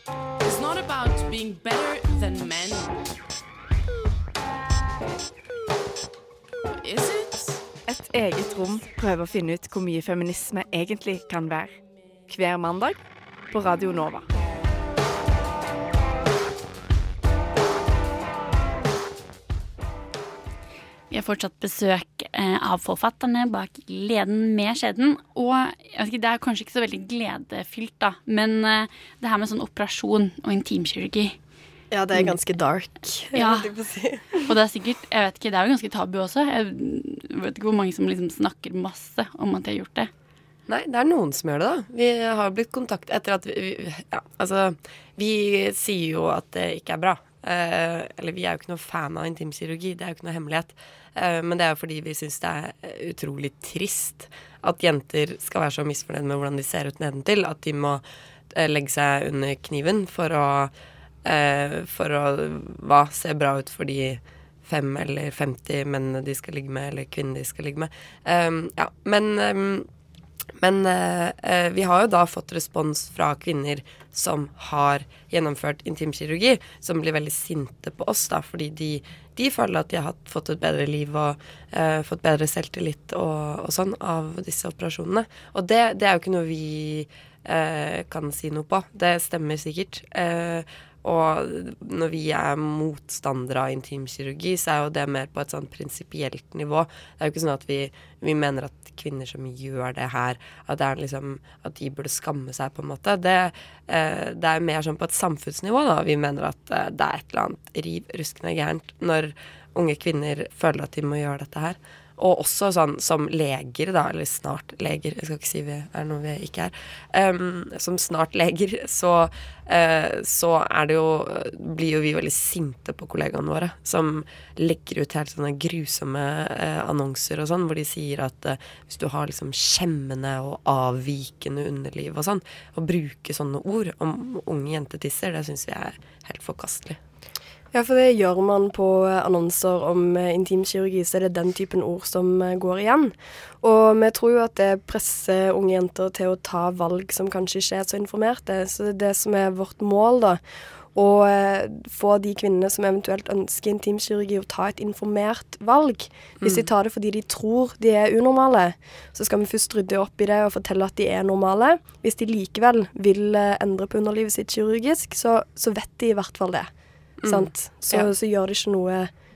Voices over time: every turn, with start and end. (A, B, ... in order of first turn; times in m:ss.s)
0:00.4-0:02.9 A
0:06.8-0:07.7 A
0:07.8-0:14.3 B
0:21.1-0:31.4 C
0:31.9-0:34.5 D
0:33.3-0:33.7 C
0:34.4-0:40.1 C
0:40.7-1:00.7 E
1:01.2-1:09.9 E
1:10.6-2:17.0 E
2:17.7-2:30.4 D
2:31.0-2:46.7 D
2:36.4-2:36.7 E
2:47.2-2:48.1 E
2:47.2-2:49.1 D